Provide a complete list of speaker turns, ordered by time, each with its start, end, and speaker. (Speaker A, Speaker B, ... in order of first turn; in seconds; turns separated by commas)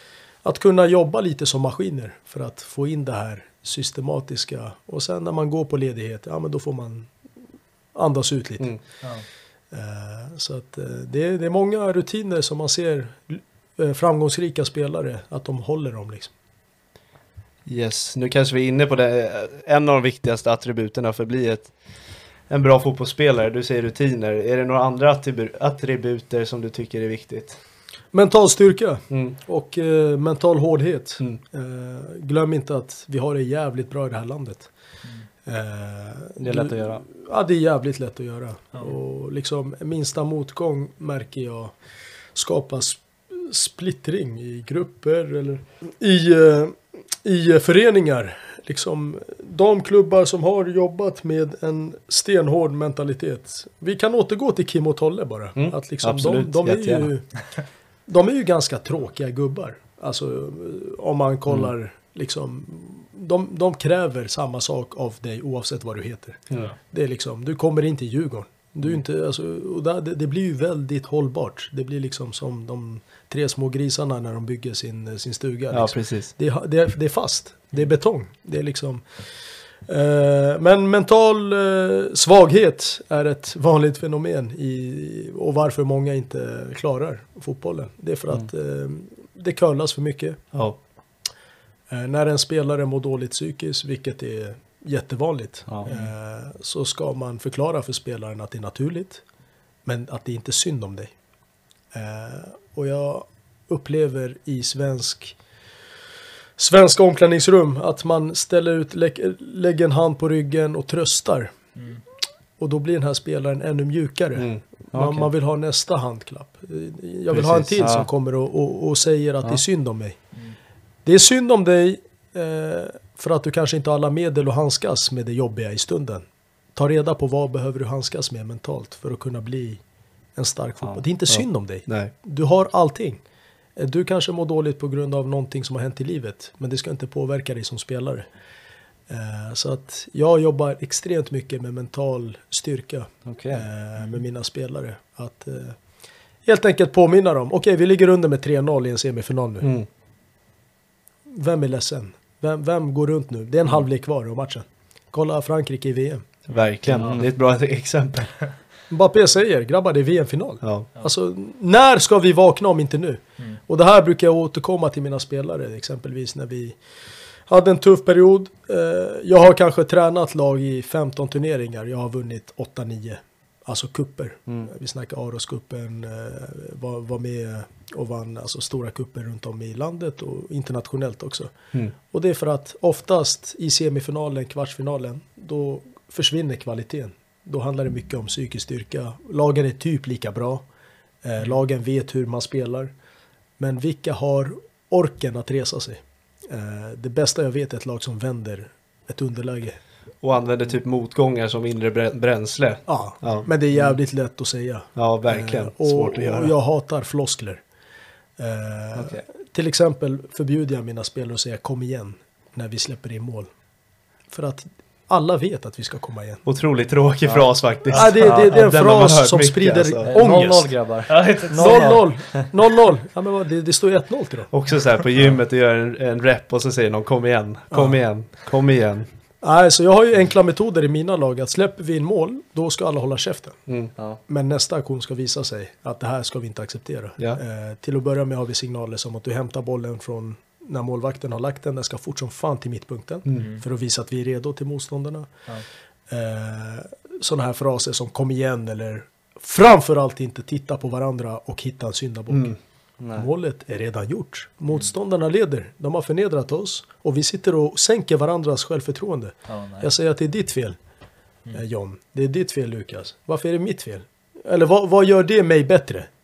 Speaker A: 0.4-7.1, Speaker A: 7.9-8.8, Speaker A: 9.7-16.3, Speaker B: 17.6-21.7, Speaker B: 22.5-27.6, Speaker A: 28.1-34.7, Speaker B: 29.1-29.4, Speaker A: 35.5-41.7, Speaker C: 36.4-37.0, Speaker A: 42.3-57.4, Speaker B: 55.5-57.1, Speaker A: 58.1-79.0, Speaker B: 75.7-76.3, Speaker A: 79.9-90.4, Speaker B: 90.5-90.8, Speaker A: 91.9-99.2, Speaker D: 95.8-96.1, Speaker A: 99.8-101.1, Speaker A: 101.9-105.3, Speaker A: 106.6-111.5, Speaker D: 111.8-112.0, Speaker A: 112.6-120.2, Speaker B: 114.3-114.6, Speaker C: 114.9-115.3, Speaker B: 117.3-117.9, Speaker C: 117.8-118.1, Speaker A: 121.0-126.2, Speaker A: 126.8-129.8, Speaker A: 130.3-133.2, Speaker B: 131.3-132.1, Speaker A: 133.8-138.3, Speaker A: 139.1-145.8, Speaker C: 143.2-143.6, Speaker A: 146.4-149.7, Speaker B: 149.6-149.9, Speaker A: 151.3-156.3, Speaker B: 156.5-158.3, Speaker D: 156.5-157.2, Speaker C: 156.9-157.3, Speaker A: 158.9-166.8, Speaker B: 160.6-160.9, Speaker A: 167.5-181.5, Speaker A: 182.1-190.6, Speaker A: 191.2-192.9, Speaker A: 193.6-199.8, Speaker B: 200.2-203.5, Speaker A: 202.9-207.6, Speaker B: 204.9-206.5, Speaker A: 208.4-213.5, Speaker B: 208.9-209.2, Speaker A: 214.3-216.4, Speaker B: 216.4-220.1, Speaker C: 217.2-218.6, Speaker A: 217.9-220.7, Speaker C: 220.0-222.4, Speaker D: 221.1-222.1, Speaker A: 221.5-224.5, Speaker B: 224.5-229.1, Speaker A: 227.7-228.0, Speaker A: 229.4-233.6, Speaker B: 233.7-233.9, Speaker A: 234.3-245.3, Speaker B: 243.2-243.5, Speaker D: 243.3-243.6, Speaker A: 246.1-252.6, Speaker B: 252.3-252.6, Speaker C: 253.0-253.3, Speaker A: 253.1-260.8, Speaker D: 259.5-259.9, Speaker A: 261.5-266.1